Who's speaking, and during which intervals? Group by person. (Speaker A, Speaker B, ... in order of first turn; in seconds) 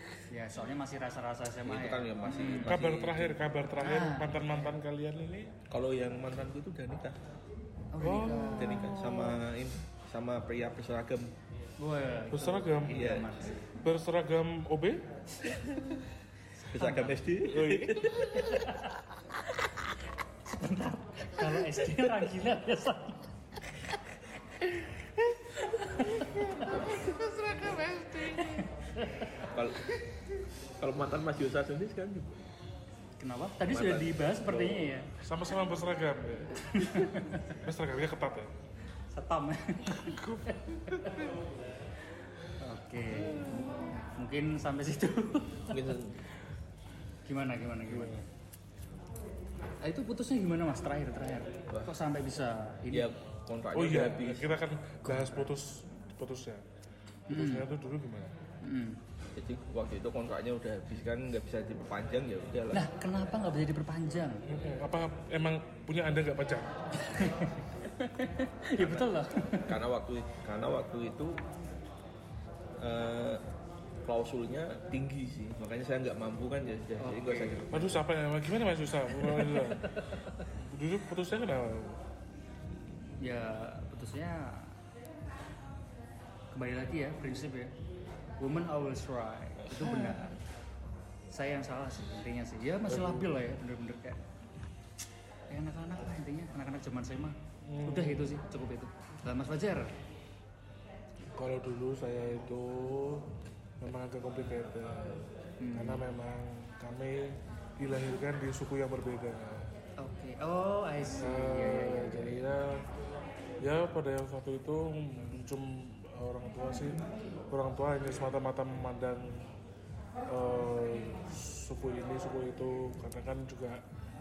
Speaker A: 0.3-2.8, 3.8-4.8, 7.9-8.9, 11.8-13.8, 16.5-17.2, 18.3-19.0, 20.4-23.4, 25.6-26.9, 28.2-29.5, 33.2-35.1, 36.7-37.6, 39.1-41.3, 42.6-46.0, 47.2-48.3, 49.8-53.1, 55.0-55.5, 57.3-57.7, 58.6-59.0, 62.7-64.5, 67.0-69.8, 77.0-77.7, 79.2-80.5, 83.2-84.8, 86.5-87.7, 88.4-90.4, 91.3-94.2, 95.5-99.9, 105.6-106.0, 110.0-112.4
Speaker B: 1.6-3.4, 5.7-7.2, 8.6-11.3, 12.9-13.3, 15.5-16.1, 16.7-18.8, 29.5-29.9, 30.8-32.4, 33.7-34.9, 43.3-43.7, 45.7-46.2, 52.9-54.6, 59.4-62.9, 68.8-71.4, 72.8-73.4, 74.0-78.0
Speaker C: 2.6-5.5, 8.0-9.4, 12.3-13.1, 13.8-15.1, 17.5-18.5, 26.6-28.6, 35.2-38.5, 39.9-41.2, 47.9-48.2, 53.7-56.6, 57.3-58.4, 64.5-66.8, 77.7-82.0, 89.6-90.3, 92.9-93.3, 97.7-98.4, 101.3-103.3, 103.8-109.7, 111.2-112.8, 113.6-119.5, 120.3-123.8